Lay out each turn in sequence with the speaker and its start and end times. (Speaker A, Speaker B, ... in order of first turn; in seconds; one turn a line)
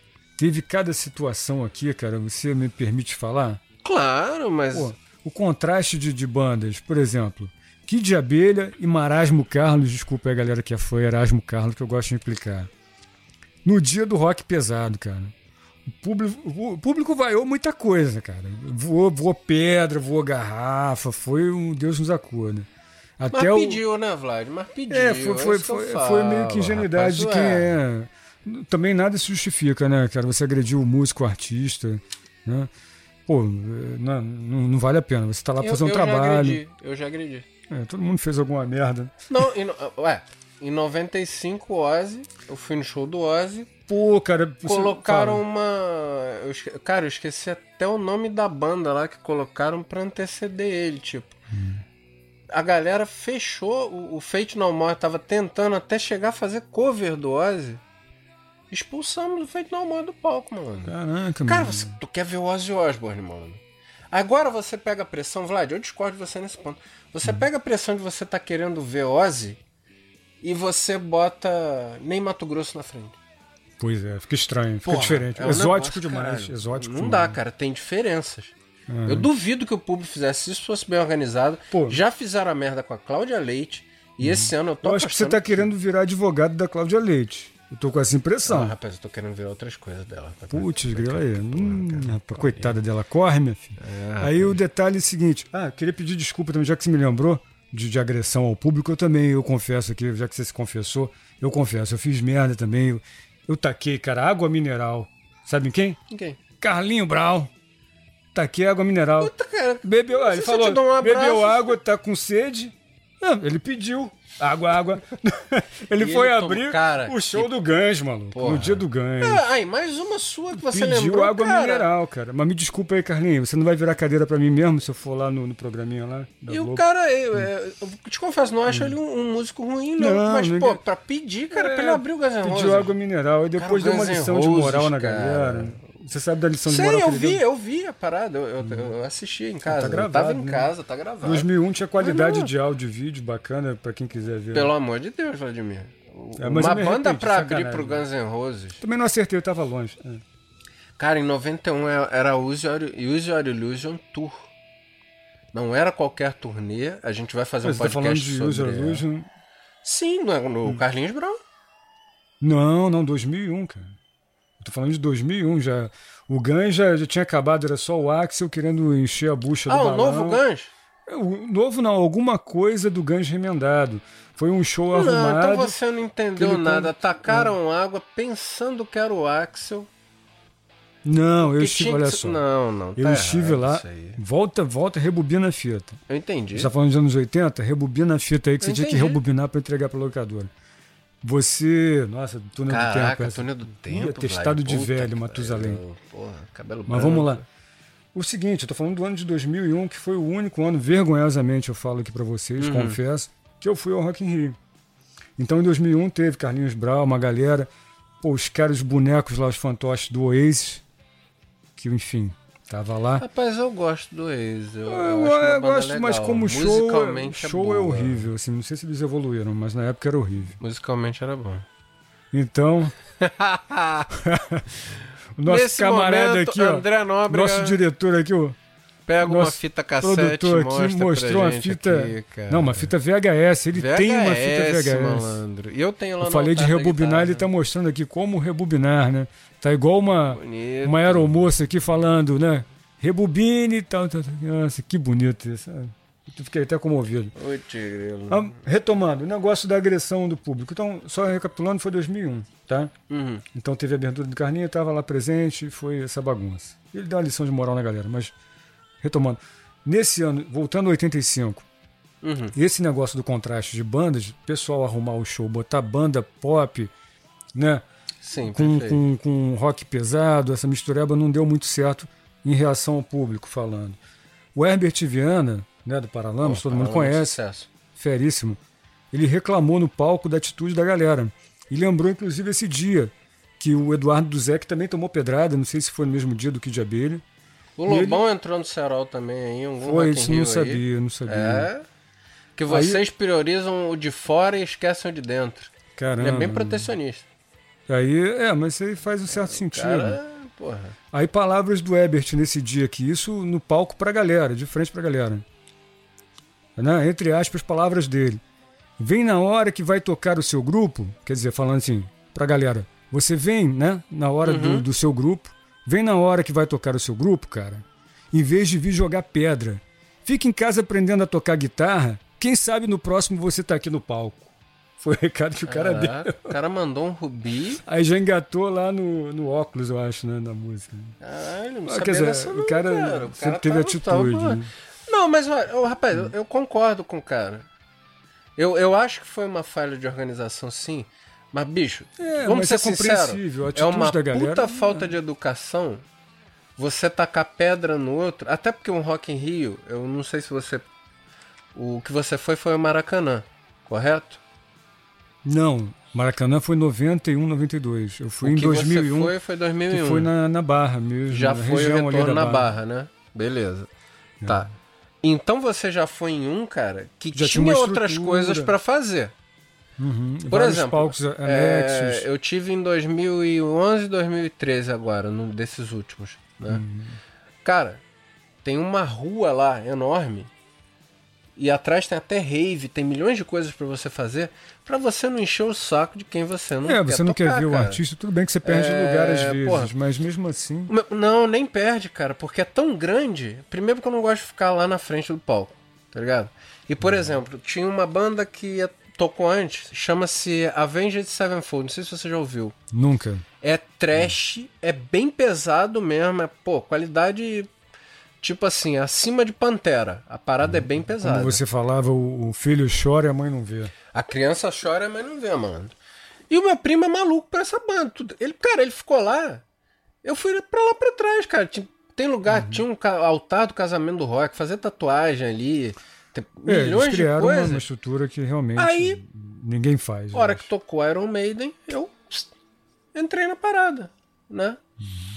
Speaker A: 0.4-3.6
Speaker B: 3.8-4.9
Speaker A: 4.7-12.7
Speaker A: 13.6-15.3
Speaker A: 15.8-22.7
Speaker A: 23.2-23.8
Speaker B: 23.3-27.8
Speaker A: 24.9-32.7
Speaker A: 33.3-36.6
Speaker B: 35.6-37.5
Speaker A: 37.7-39.1
Speaker B: 39.3-43.7
Speaker A: 43.9-45.4
Speaker B: 44.6-51.3
Speaker A: 51.5-51.8
Speaker B: 52.5-57.8
Speaker B: 58.7-60.9
Speaker A: 60.9-62.0
Speaker B: 61.5-69.6
Speaker B: 70.4-73.2
Speaker A: 73.8-77.4
Speaker B: 74.8-78.5
Speaker A: 78.9-79.3
Speaker B: 79.0-85.7
Speaker A: 81.7-82.0
Speaker A: 84.2-88.7
Speaker B: 88.5-92.7
Speaker A: 90.5-106.0
Speaker B: 93.8-94.6
Speaker B: 106.1-106.4
Speaker A: 106.6-107.5
Speaker A: 108.3-109.3
Speaker B: 109.2-111.8
Speaker A: 109.8-119.4
Speaker B: 115.9-117.6
Speaker B: 118.3-121.9
Speaker A: 120.5-126.8
Speaker B: 126.5-132.9
Speaker A: 130.0-130.8
Speaker A: 131.5-137.4
Speaker B: 133.6-135.8
Speaker B: 136.6-142.5
Speaker A: 139.6-140.7
Speaker A: 141.2-144.7
Speaker B: 144.5-148.8
Speaker A: 146.4-148.0
Speaker A: 148.8-150.2
Speaker B: 151.0-154.5
Speaker B: 155.5-159.0
Speaker A: 157.6-159.3
Speaker B: 159.8-161.4
Speaker A: 162.4-164.0
Speaker A: 164.6-170.4
Speaker B: 169.7-170.7
Speaker A: 171.1-175.7
Speaker B: 174.9-179.9
Speaker A: 176.3-177.5
Speaker A: 181.0-182.4
Speaker B: 181.4-184.2
Speaker A: 183.0-186.0
Speaker B: 186.1-186.7
Speaker A: 186.5-190.5
Speaker B: 188.6-189.2
Speaker A: 191.2-195.8
Speaker B: 192.7-197.4
Speaker A: 196.9-197.4
Speaker A: 198.1-204.6
Speaker B: 202.6-203.0
Speaker A: 205.4-207.7
Speaker A: 208.2-210.8
Speaker A: 211.8-213.2
Speaker B: 213.2-218.3
Speaker A: 214.9-220.6
Speaker B: 220.6-221.7
Speaker A: 222.3-222.9
Speaker B: 223.2-224.1
Speaker A: 224.1-228.6
Speaker B: 225.4-227.8
Speaker B: 229.1-232.9
Speaker A: 229.2-235.4
Speaker B: 233.7-237.5
Speaker A: 236.2-247.3
Speaker B: 240.3-241.5
Speaker B: 247.3-248.6
Speaker A: 248.3-252.9
Speaker B: 253.1-253.4
Speaker A: 253.5-258.3
Speaker A: 259.0-261.6
Speaker B: 262.2-262.5
Speaker A: 262.5-266.9
Speaker A: 267.5-267.8
Speaker B: 268.2-269.0
Speaker A: 268.4-274.0
Speaker A: 274.5-277.4
Speaker B: 276.4-277.7
Speaker A: 277.9-278.6
Speaker A: 279.1-287.2
Speaker B: 287.8-291.9
Speaker A: 287.9-288.2
Speaker A: 289.8-291.7
Speaker B: 292.6-297.2
Speaker A: 292.7-293.0
Speaker A: 296.0-296.9
Speaker A: 297.9-300.2
Speaker B: 299.3-300.9
Speaker A: 301.1-305.4
Speaker A: 306.8-308.4
Speaker A: 309.0-326.5
Speaker B: 314.4-314.9
Speaker B: 325.6-327.8
Speaker A: 327.8-331.2
Speaker B: 331.2-337.7
Speaker A: 331.9-334.7
Speaker B: 338.6-346.0
Speaker A: 342.2-345.1
Speaker B: 346.8-350.9
Speaker B: 351.7-354.4
Speaker A: 355.4-359.3
Speaker B: 358.4-360.3
Speaker A: 359.9-362.7
Speaker B: 361.3-363.9
Speaker B: 365.2-369.3
Speaker A: 367.3-368.7
Speaker A: 370.0-372.3
Speaker B: 370.5-376.8
Speaker A: 376.7-377.2
Speaker B: 377.6-378.0
Speaker B: 378.6-380.5
Speaker B: 381.5-388.0
Speaker A: 386.8-390.9
Speaker B: 388.6-389.9
Speaker B: 390.9-402.7
Speaker A: 402.9-403.4
Speaker B: 403.6-407.7
Speaker B: 408.4-411.6
Speaker A: 410.8-413.9
Speaker B: 414.1-415.9
Speaker B: 416.5-419.6
Speaker B: 420.2-427.9
Speaker A: 422.5-422.8
Speaker A: 426.6-430.7
Speaker B: 428.8-429.2
Speaker B: 430.3-432.5
Speaker B: 433.1-434.8